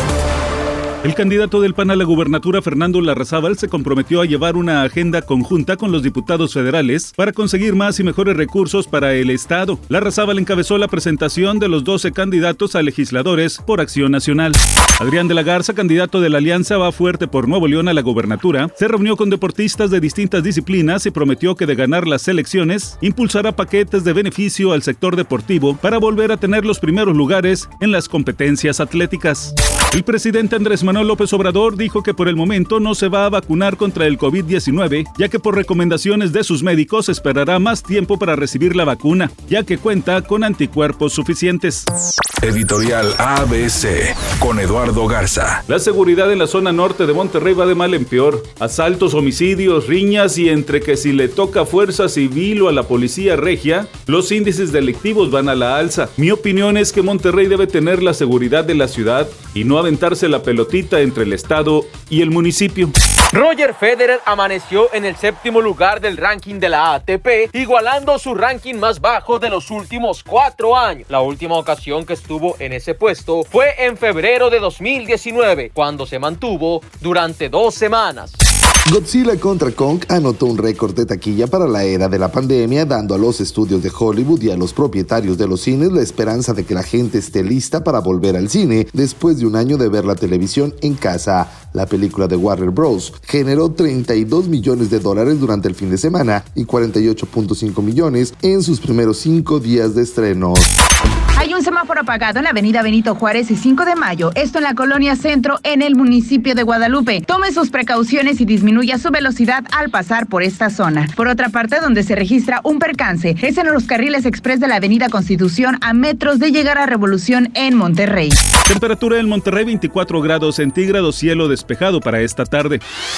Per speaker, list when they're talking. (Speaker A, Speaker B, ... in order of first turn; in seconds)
Speaker A: 1.0-41.9, 45.7-62.9, 118.7-122.8
Speaker B: 42.4-45.6
Speaker C: 63.3-78.4
Speaker D: 78.9-100.7
Speaker E: 101.4-118.4